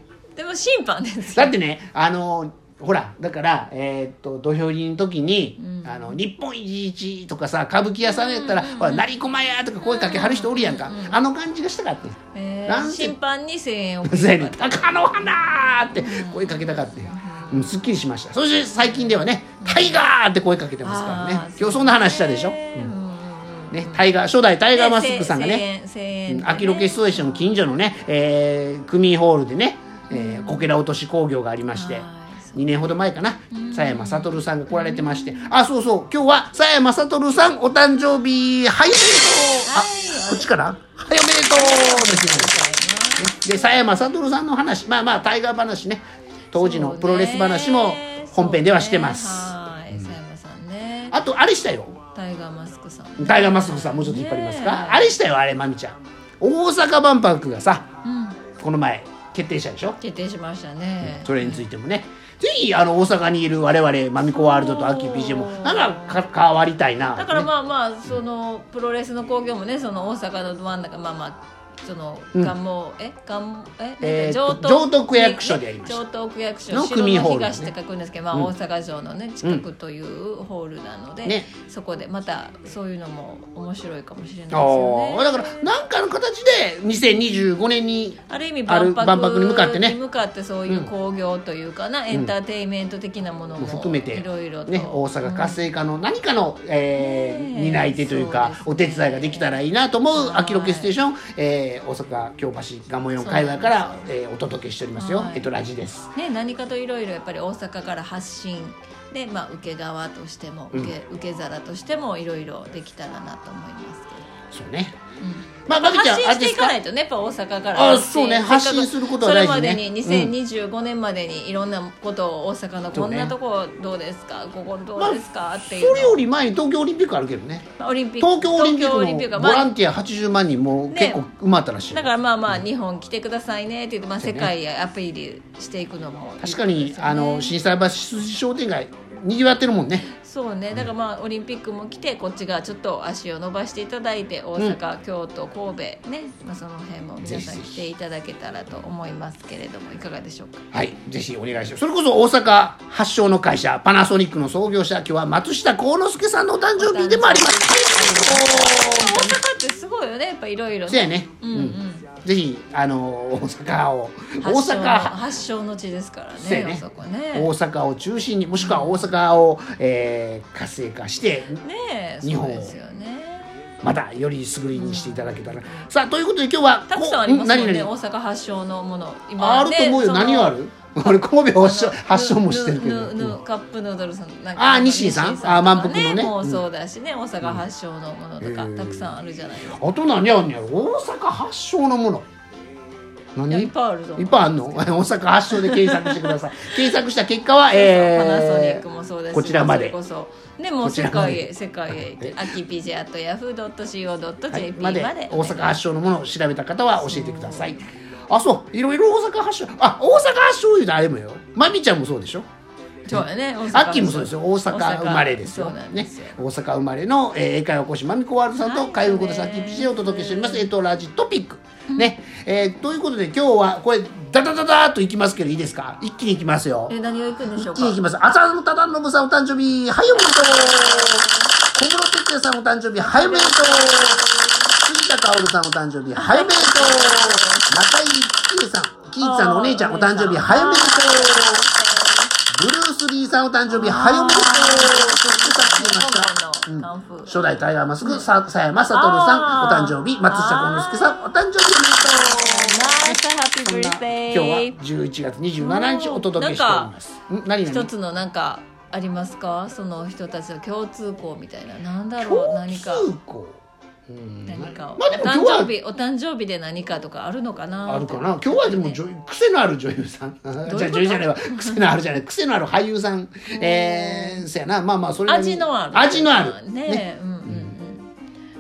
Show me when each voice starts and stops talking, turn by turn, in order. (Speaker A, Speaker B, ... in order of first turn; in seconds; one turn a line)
Speaker A: 0.3-1.5
Speaker B: 1.3-13.1
Speaker A: 5.6-6.2
Speaker A: 8.0-9.1
Speaker A: 9.8-11.2
Speaker A: 12.3-17.8
Speaker B: 14.0-22.9
Speaker A: 18.8-20.0
Speaker A: 20.8-24.1
Speaker B: 23.7-25.6
Speaker A: 24.7-27.6
Speaker B: 26.3-42.6
Speaker A: 30.1-30.7
Speaker A: 31.7-32.6
Speaker A: 33.5-35.6
Speaker A: 39.6-40.5
Speaker A: 41.4-44.1
Speaker B: 43.2-50.1
Speaker A: 46.5-51.2
Speaker B: 51.1-52.0
Speaker A: 52.1-55.2
Speaker B: 53.2-57.9
Speaker A: 58.0-58.4
Speaker B: 58.6-60.0
Speaker A: 60.0-61.6
Speaker B: 61.0-67.5
Speaker A: 64.2-66.2
Speaker A: 67.1-85.7
Speaker B: 74.0-76.0
Speaker B: 76.7-77.7
Speaker B: 84.5-90.0
Speaker A: 88.3-95.6
Speaker B: 93.6-106.1
Speaker A: 97.0-99.6
Speaker A: 100.1-100.9
Speaker A: 103.2-104.0
Speaker A: 104.9-105.5
Speaker A: 106.1-114.2
Speaker B: 114.5-115.0
Speaker A: 115.2-126.2
Speaker B: 115.7-116.8
Speaker B: 117.7-120.3
Speaker B: 122.9-123.3
Speaker B: 125.0-127.7
Speaker A: 127.8-129.7
Speaker B: 128.2-132.6
Speaker A: 130.9-131.2
Speaker A: 131.9-137.6
Speaker B: 134.2-134.5
Speaker B: 136.4-140.1
Speaker A: 140.1-150.6
Speaker B: 147.2-147.8
Speaker B: 150.7-159.4
Speaker A: 156.8-162.1
Speaker B: 160.9-165.1
Speaker A: 164.4-167.5
Speaker B: 166.4-171.6
Speaker A: 168.6-169.2
Speaker A: 171.6-173.5
Speaker B: 172.2-172.8
Speaker B: 173.8-177.9
Speaker A: 174.7-175.9
Speaker A: 176.9-189.8
Speaker B: 179.4-183.4
Speaker B: 184.6-186.6
Speaker B: 188.4-189.1
Speaker B: 189.7-192.3
Speaker B: 193.3-199.9
Speaker A: 193.5-196.9
Speaker A: 197.7-205.8
Speaker B: 200.8-202.4
Speaker B: 204.5-212.4
Speaker A: 206.9-207.8
Speaker A: 213.1-216.4
Speaker B: 213.1-234.2
Speaker A: 218.6-220.7
Speaker A: 226.9-228.0
Speaker A: 230.2-231.4
Speaker A: 233.0-234.7
Speaker B: 234.8-241.7
Speaker A: 236.2-237.7
Speaker A: 239.2-242.3
Speaker B: 242.5-257.9
Speaker A: 243.7-247.4
Speaker A: 248.0-251.3
Speaker A: 252.1-254.8
Speaker A: 255.6-256.9
Speaker A: 257.6-263.1
Speaker B: 262.2-265.7
Speaker A: 264.4-269.0
Speaker B: 267.9-277.7
Speaker A: 270.6-271.9
Speaker A: 273.5-274.5
Speaker A: 275.3-278.1